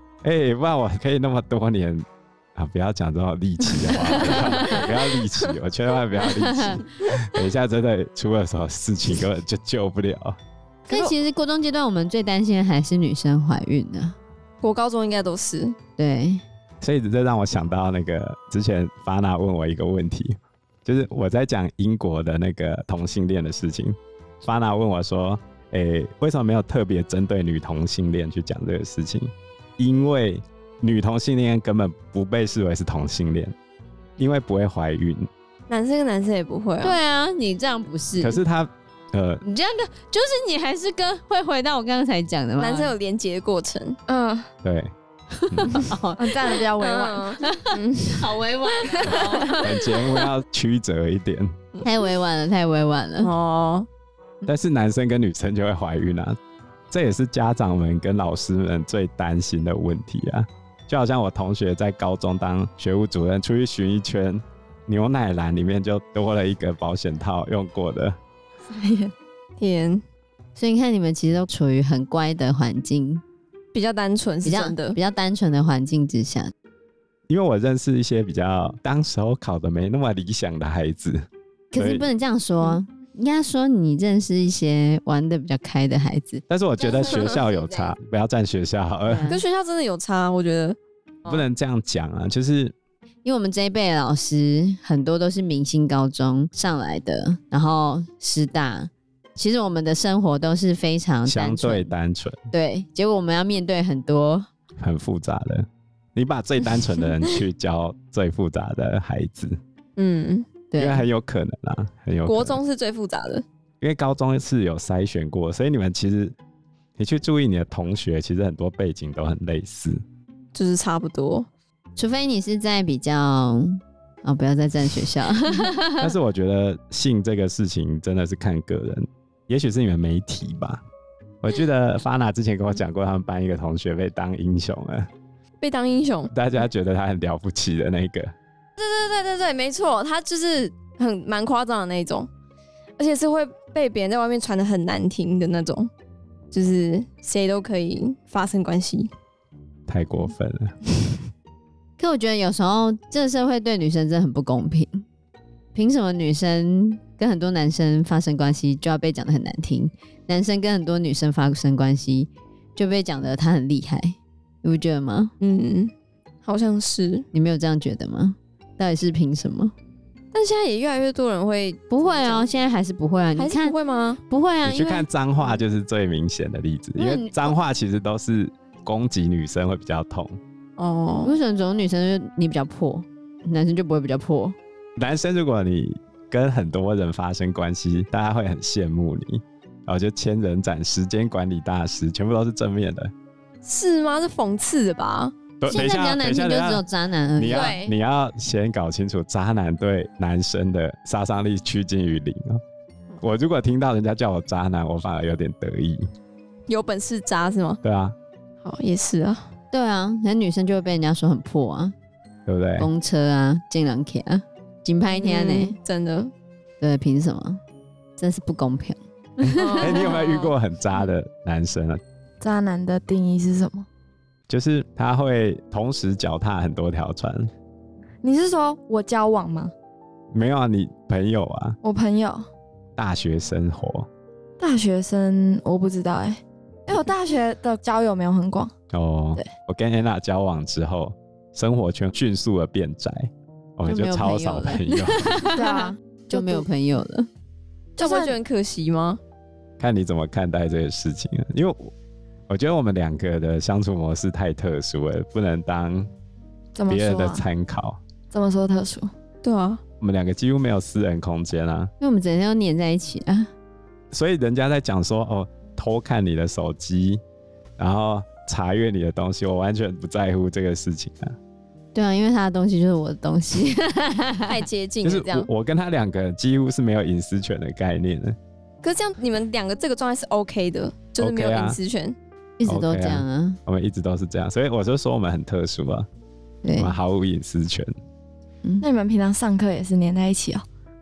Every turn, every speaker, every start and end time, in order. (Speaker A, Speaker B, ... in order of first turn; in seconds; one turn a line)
Speaker A: 0.2-10.4
Speaker B: 4.4-4.9
Speaker C: 10.9-14.2
Speaker B: 14.6-15.8
Speaker C: 16.0-16.4
Speaker A: 16.8-33.5
Speaker A: 34.2-35.3
Speaker B: 35.7-37.0
Speaker C: 36.8-38.4
Speaker A: 38.2-39.4
Speaker C: 39.4-43.0
Speaker B: 42.6-44.0
Speaker D: 44.1-44.5
Speaker A: 44.6-44.9
Speaker C: 45.4-46.6
Speaker A: 45.5-45.8
Speaker D: 46.2-47.4
Speaker B: 46.5-49.6
Speaker C: 47.4-50.0
Speaker A: 49.6-51.5
Speaker C: 51.8-53.3
Speaker B: 53.2-53.9
Speaker A: 54.5-56.4
Speaker A: 56.9-68.2
Speaker D: 68.7-69.1
Speaker B: 69.6-70.0
Speaker C: 70.6-73.2
Speaker B: 73.7-75.0
Speaker C: 74.4-76.5
Speaker A: 77.3-82.1
Speaker C: 81.7-86.4
Speaker A: 86.5-89.3
Speaker B: 87.0-87.4
Speaker C: 89.1-89.4
Speaker B: 89.3-91.5
Speaker A: 91.2-92.7
Speaker C: 93.2-101.9
Speaker A: 101.2-102.4
Speaker C: 102.5-104.5
Speaker A: 104.8-109.6
Speaker B: 110.0-110.5
Speaker C: 110.7-111.0
Speaker A: 110.8-112.6
Speaker B: 112.2-113.4
Speaker A: 113.8-116.4
Speaker A: 117.0-120.0
Speaker B: 120.5-121.5
Speaker C: 122.0-126.1
Speaker A: 126.0-130.8
Speaker A: 131.4-135.1
Speaker B: 135.6-136.3
Speaker A: 136.3-138.3
Speaker B: 138.8-142.3
Speaker B: 143.0-145.9
Speaker B: 146.5-149.1
Speaker A: 149.9-150.8
Speaker C: 152.0-155.1
Speaker C: 155.7-165.3
Speaker B: 165.4-165.9
Speaker B: 166.5-167.2
Speaker C: 167.3-169.7
Speaker B: 170.3-172.4
Speaker C: 171.9-173.7
Speaker B: 173.3-174.2
Speaker C: 174.3-175.1
Speaker A: 174.7-180.4
Speaker C: 177.0-177.5
Speaker B: 180.8-181.3
Speaker C: 181.2-184.6
Speaker A: 185.0-193.1
Speaker B: 193.6-195.3
Speaker A: 195.6-196.8
Speaker C: 195.7-197.8
Speaker A: 197.3-202.6
Speaker B: 197.5-197.9
Speaker A: 203.2-206.1
Speaker B: 206.7-207.8
Speaker A: 207.8-208.2
Speaker B: 208.6-209.5
Speaker C: 209.7-211.9
Speaker A: 212.5-212.9
Speaker C: 212.8-215.8
Speaker B: 215.2-216.3
Speaker C: 216.8-217.6
Speaker C: 218.2-220.0
Speaker B: 219.5-220.5
Speaker A: 219.8-222.0
Speaker D: 222.4-223.9
Speaker A: 224.5-227.5
Speaker D: 228.2-229.7
Speaker A: 230.3-231.8
Speaker D: 231.8-232.5
Speaker A: 233.0-234.1
Speaker D: 234.6-238.7
Speaker A: 238.9-245.4
Speaker C: 243.9-247.3
Speaker D: 245.5-246.7
Speaker D: 248.0-248.3
Speaker B: 248.0-249.2
Speaker A: 249.8-251.9
Speaker A: 252.5-256.1
Speaker D: 256.8-257.4
Speaker A: 256.9-258.0
Speaker D: 258.3-259.1
Speaker B: 259.4-259.8
Speaker A: 260.0-261.9
Speaker C: 262.0-263.5
Speaker A: 264.1-267.2
Speaker A: 267.8-271.4
Speaker C: 271.9-274.6
Speaker B: 274.5-275.5
Speaker A: 275.0-278.4
Speaker B: 278.8-282.2
Speaker A: 281.2-281.8
Speaker C: 282.6-283.6
Speaker A: 282.6-286.1
Speaker C: 286.6-286.9
Speaker A: 286.8-287.9
Speaker D: 288.8-290.6